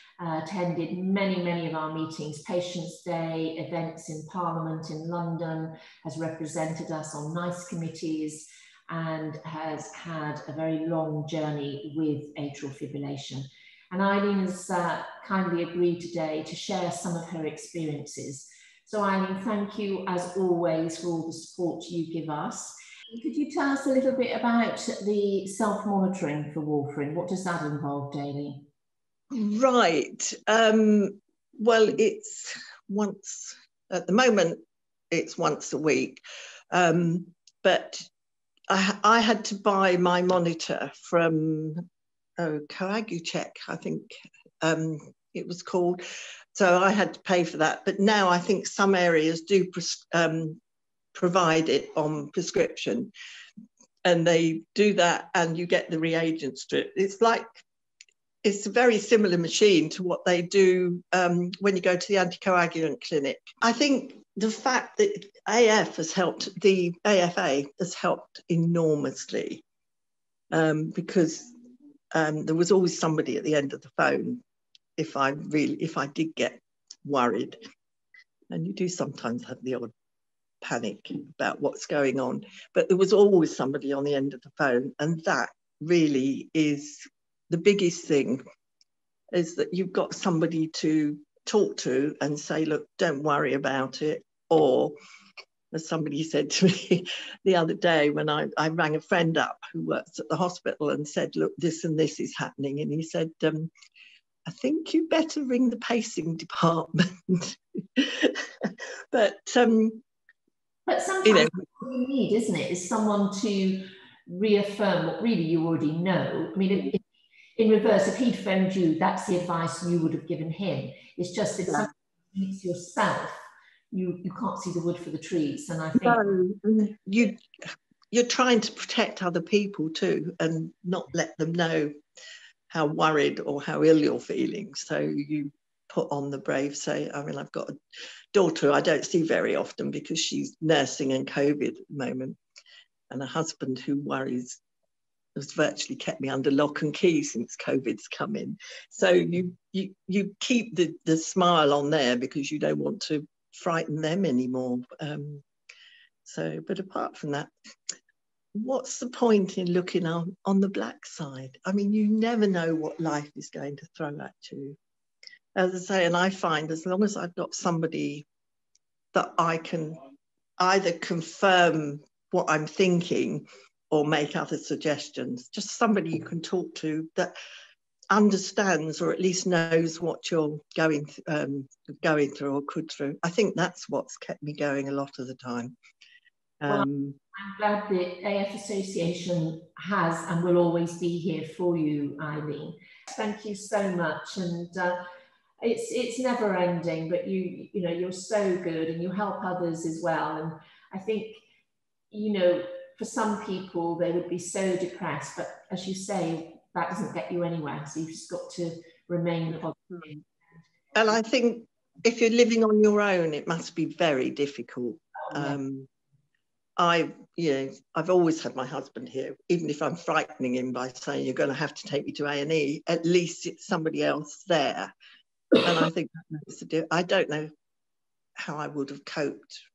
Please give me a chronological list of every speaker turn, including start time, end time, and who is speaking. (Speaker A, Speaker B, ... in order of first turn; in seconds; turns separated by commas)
Speaker A: 0.2-28.7, Speaker B: 29.3-38.0, Speaker B: 38.7-41.9, Speaker B: 42.4-44.1, Speaker B: 44.6-46.0, Speaker B: 46.5-50.6, Speaker B: 51.1-53.1, Speaker B: 54.0-57.4, Speaker B: 58.4-69.6, Speaker B: 70.5-71.5, Speaker B: 72.1-74.4, Speaker B: 75.0-77.6, Speaker B: 78.5-79.9, Speaker B: 80.6-88.4, Speaker B: 89.3-95.0, Speaker B: 95.7-103.7, Speaker B: 104.5-110.0, Speaker A: 110.9-117.0, Speaker B: 111.2-111.5, Speaker A: 117.6-123.4, Speaker A: 123.9-126.3, Speaker B: 126.0-127.4, Speaker B: 128.1-131.9, Speaker B: 132.7-137.7, Speaker B: 138.3-142.4, Speaker B: 143.1-144.6, Speaker B: 145.4-155.4, Speaker B: 156.2-157.5, Speaker B: 158.6-164.8, Speaker B: 165.6-168.3, Speaker B: 169.1-170.0, Speaker B: 170.6-177.3, Speaker B: 178.1-185.8, Speaker B: 186.6-187.2, Speaker A: 186.7-195.0, Speaker A: 195.6-201.4, Speaker A: 202.1-210.2, Speaker B: 210.9-215.9, Speaker A: 215.3-215.6, Speaker B: 216.8-224.9, Speaker B: 225.6-227.5, Speaker B: 228.4-229.6